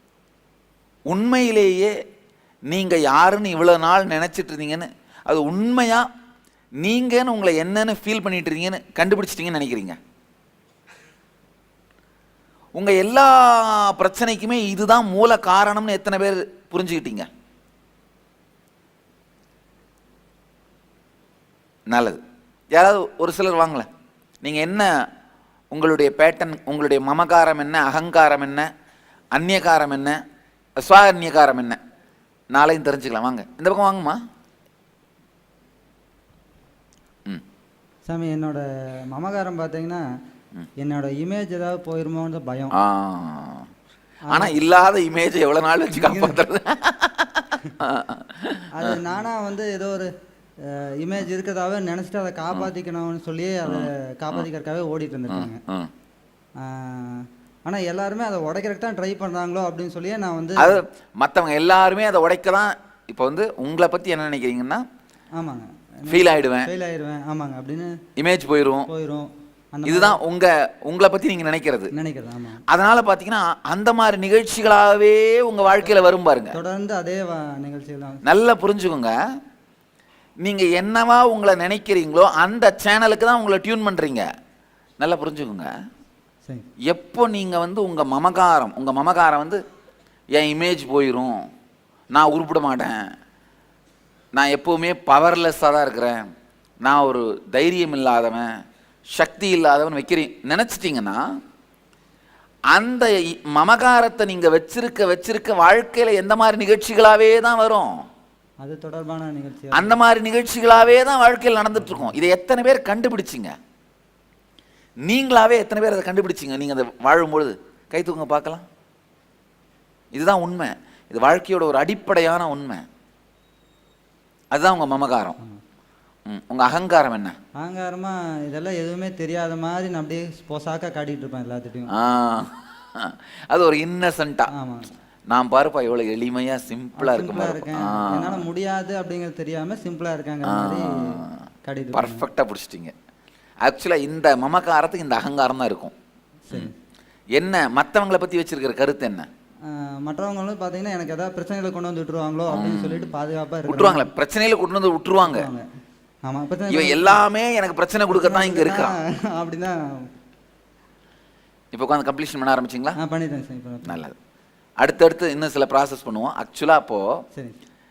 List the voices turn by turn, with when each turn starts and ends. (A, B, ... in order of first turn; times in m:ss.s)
0:01.1-0:01.9 A
0:02.7-0:06.0 A
0:06.8-0:10.0 A
0:12.8-0:17.3 A
0:21.9-0:22.2 A
0:22.7-0:23.9 A
0:24.4-0:24.9 A
0:25.7-0:28.7 A
0:29.3-0:30.2 A
0:30.8-0:31.8 A
0:32.5-0:34.2 A
0:38.0-0:40.0 B
0:40.8-0:42.7 B
0:42.7-0:43.7 A
0:44.3-0:44.6 B
0:44.3-0:49.0 A
0:45.9-0:46.4 B
0:48.7-0:50.1 B
0:50.6-0:55.6 B
0:53.6-0:54.4 A
0:55.3-0:55.9 A
0:56.6-1:00.8 B
1:00.6-1:04.8 A
1:05.4-1:08.0 B
1:06.1-1:06.7 A
1:08.2-1:08.9 A
1:08.9-1:10.2 B
1:09.8-1:11.9 A
1:11.9-1:12.6 B
1:12.7-1:16.6 A
1:16.5-1:18.2 B
1:18.2-1:19.1 A
1:20.4-1:24.3 A
1:25.0-1:25.7 A
1:26.9-1:29.6 A
1:30.3-1:31.4 A
1:32.1-1:33.1 A
1:34.3-1:36.2 A
1:36.8-1:38.5 A
1:39.1-1:41.2 A
1:42.7-1:48.0 A
1:48.6-1:50.0 B
1:49.7-1:53.5 A
1:55.0-1:58.6 A
2:00.1-2:02.8 A
2:04.5-2:05.4 A
2:06.3-2:07.4 A
2:07.6-2:11.9 B
2:11.9-2:14.5 A
2:14.5-2:14.9 B
2:15.3-2:18.4 A
2:17.0-2:22.2 B
2:20.5-2:21.3 A
2:21.9-2:22.9 A
2:23.6-2:25.9 A
2:26.5-2:26.7 B
2:27.4-2:29.3 A
2:29.7-2:34.1 B
2:32.5-2:33.1 A
2:33.7-2:35.5 A
2:35.2-2:35.7 B
2:36.2-2:37.2 B
2:36.7-2:39.0 A
2:38.1-2:40.0 B
2:41.7-2:43.0 A
2:43.0-2:44.0 B
2:43.8-2:44.1 A
2:44.8-2:47.1 A